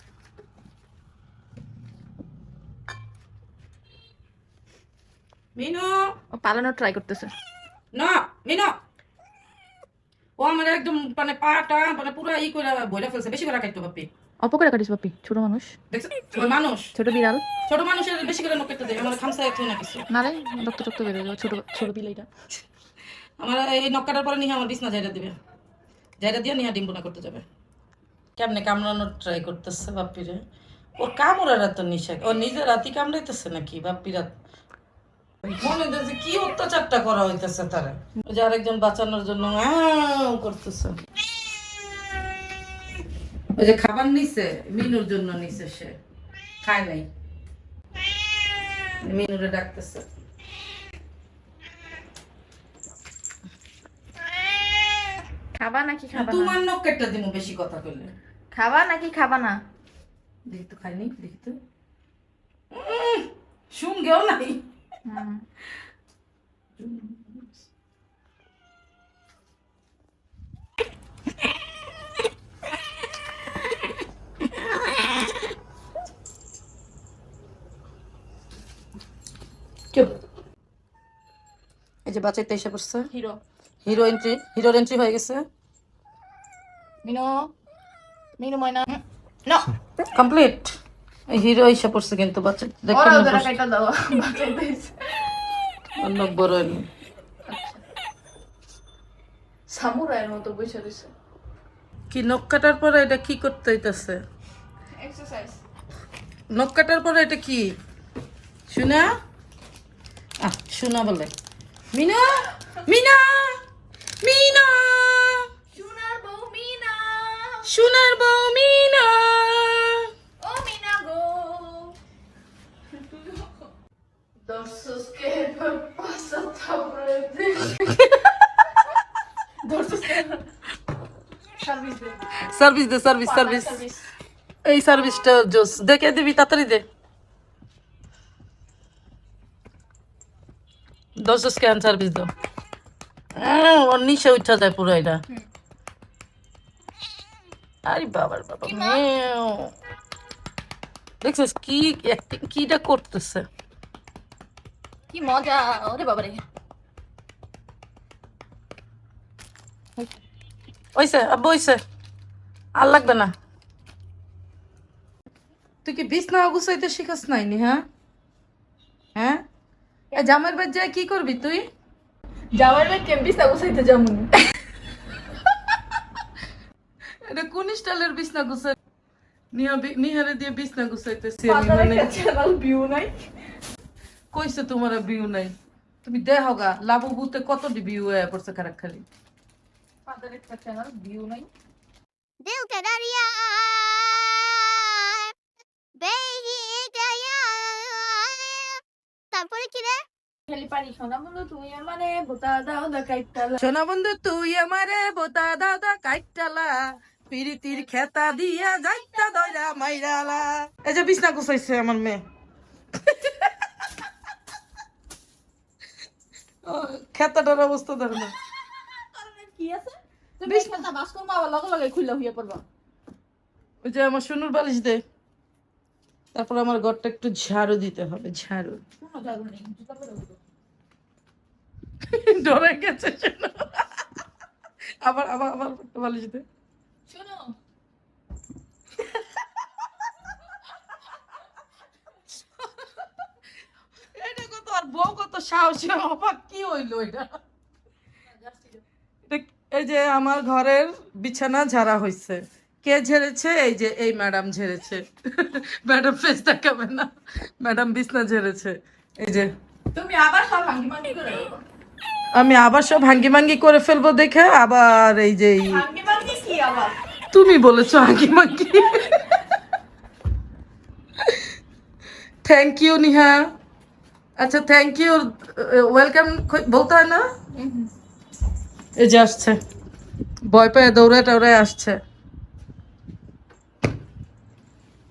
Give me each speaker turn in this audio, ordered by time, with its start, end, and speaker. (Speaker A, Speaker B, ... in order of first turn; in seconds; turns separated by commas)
Speaker A: 5.5-6.1, Speaker B: 6.3-7.3, Speaker A: 7.9-8.7, Speaker A: 10.4-14.1, Speaker B: 14.4-15.8, Speaker A: 15.9-16.9, Speaker B: 16.3-17.4, Speaker A: 17.7-20.1, Speaker B: 20.1-22.3, Speaker A: 23.4-25.3, Speaker A: 26.2-27.4, Speaker A: 28.4-30.4, Speaker A: 31.0-34.4, Speaker A: 35.6-41.0, Speaker A: 43.6-45.9, Speaker A: 46.6-47.1, Speaker A: 49.0-50.0, Speaker B: 55.5-56.6, Speaker A: 56.1-58.1, Speaker B: 58.5-59.6, Speaker A: 60.5-61.5, Speaker A: 62.7-64.6, Speaker B: 65.0-65.4, Speaker A: 66.8-67.6, Speaker A: 82.0-83.1, Speaker B: 83.1-83.4, Speaker A: 83.8-85.4, Speaker B: 87.0-87.5, Speaker B: 88.4-89.7, Speaker A: 90.1-90.7, Speaker A: 91.3-93.5, Speaker B: 92.9-95.2, Speaker A: 96.0-96.9, Speaker B: 97.5-97.8, Speaker B: 99.7-101.1, Speaker A: 102.1-104.2, Speaker B: 105.0-105.6, Speaker A: 106.5-107.7, Speaker A: 108.7-109.1, Speaker A: 110.4-111.3, Speaker A: 111.9-113.5, Speaker A: 114.2-115.4, Speaker B: 115.7-117.7, Speaker A: 117.7-120.1, Speaker B: 120.4-121.9, Speaker B: 122.9-123.6, Speaker B: 124.4-128.7, Speaker B: 129.6-130.4, Speaker B: 131.6-132.2, Speaker A: 132.4-133.8, Speaker B: 133.2-134.1, Speaker A: 134.7-136.8, Speaker A: 141.2-142.3, Speaker A: 143.4-145.2, Speaker A: 147.8-149.7, Speaker B: 148.6-149.0, Speaker A: 151.2-153.4, Speaker B: 155.1-156.4, Speaker A: 160.9-161.8, Speaker A: 162.8-163.3, Speaker A: 165.8-167.8, Speaker A: 169.2-169.4, Speaker A: 170.1-171.6, Speaker B: 172.5-174.5, Speaker A: 177.2-178.7, Speaker A: 179.5-182.1, Speaker B: 181.5-183.2, Speaker A: 184.3-189.0, Speaker B: 190.1-191.5, Speaker C: 192.4-195.3, Speaker C: 195.9-200.0, Speaker B: 200.5-203.6, Speaker A: 203.6-212.2, Speaker A: 216.7-218.3, Speaker B: 218.7-222.6, Speaker A: 220.4-220.8, Speaker A: 223.8-225.0, Speaker A: 226.3-228.8, Speaker B: 229.0-230.4, Speaker A: 232.1-234.1, Speaker A: 235.0-236.4, Speaker B: 237.1-237.5, Speaker A: 244.1-247.3, Speaker B: 248.4-248.8, Speaker A: 249.3-257.1, Speaker A: 257.6-259.5, Speaker B: 259.9-261.6, Speaker A: 262.3-265.8, Speaker B: 265.7-267.0, Speaker A: 267.3-269.4, Speaker A: 272.4-273.4, Speaker A: 274.4-277.2, Speaker B: 277.6-277.9, Speaker A: 279.0-279.6, Speaker A: 280.4-282.0